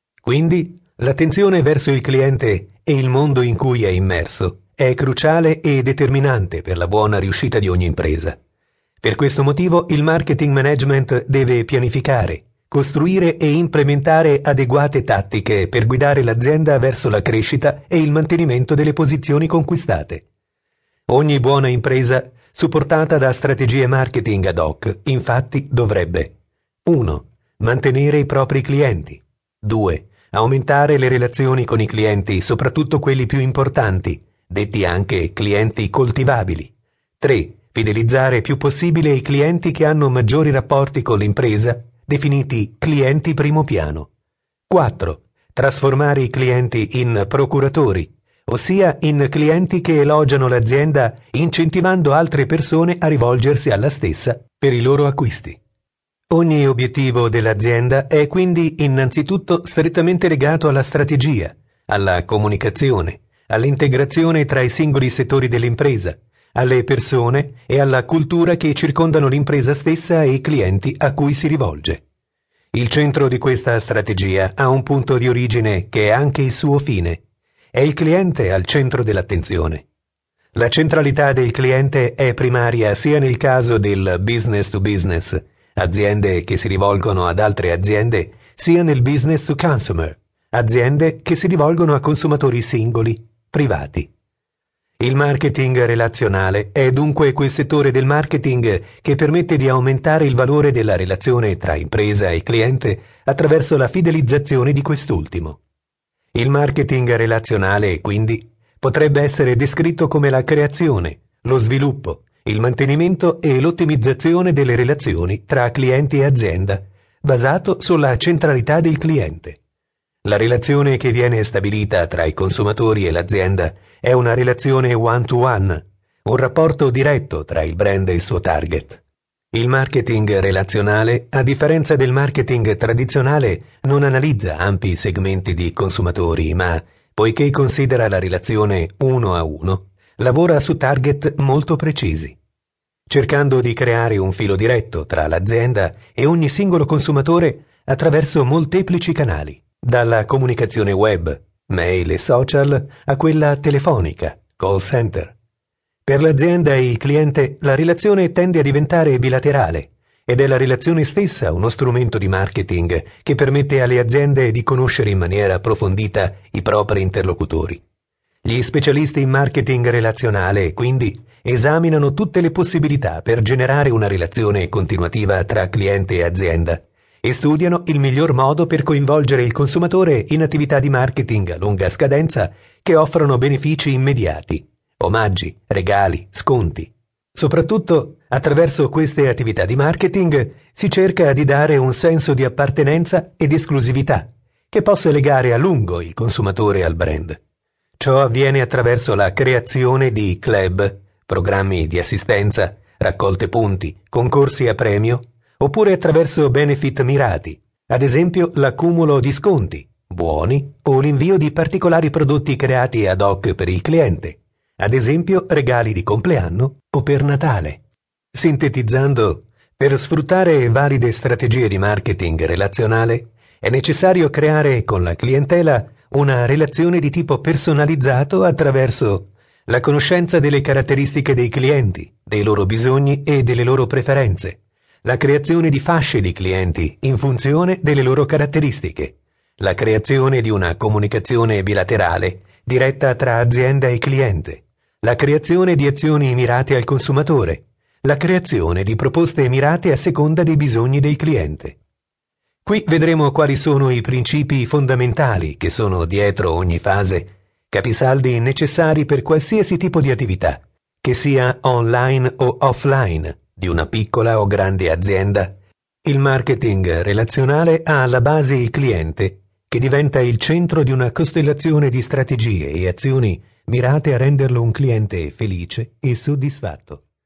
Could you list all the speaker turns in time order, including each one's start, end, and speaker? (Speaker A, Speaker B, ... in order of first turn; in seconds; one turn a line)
Speaker A: 0.2-8.3
Speaker A: 9.0-20.2
Speaker A: 21.1-26.3
Speaker A: 26.9-44.1
Speaker A: 44.7-55.6
Speaker A: 56.3-72.0
Speaker A: 72.7-77.2
Speaker A: 77.7-79.8
Speaker A: 80.5-94.1
Speaker A: 95.0-105.6
Speaker A: 106.3-119.6
Speaker A: 120.2-129.0
Speaker A: 129.5-142.4
Speaker A: 143.1-155.3
Speaker A: 156.1-167.8
Speaker A: 168.5-197.4
Speaker A: 198.0-217.8
Speaker A: 218.3-251.8
Speaker A: 252.7-265.5
Speaker A: 266.1-277.0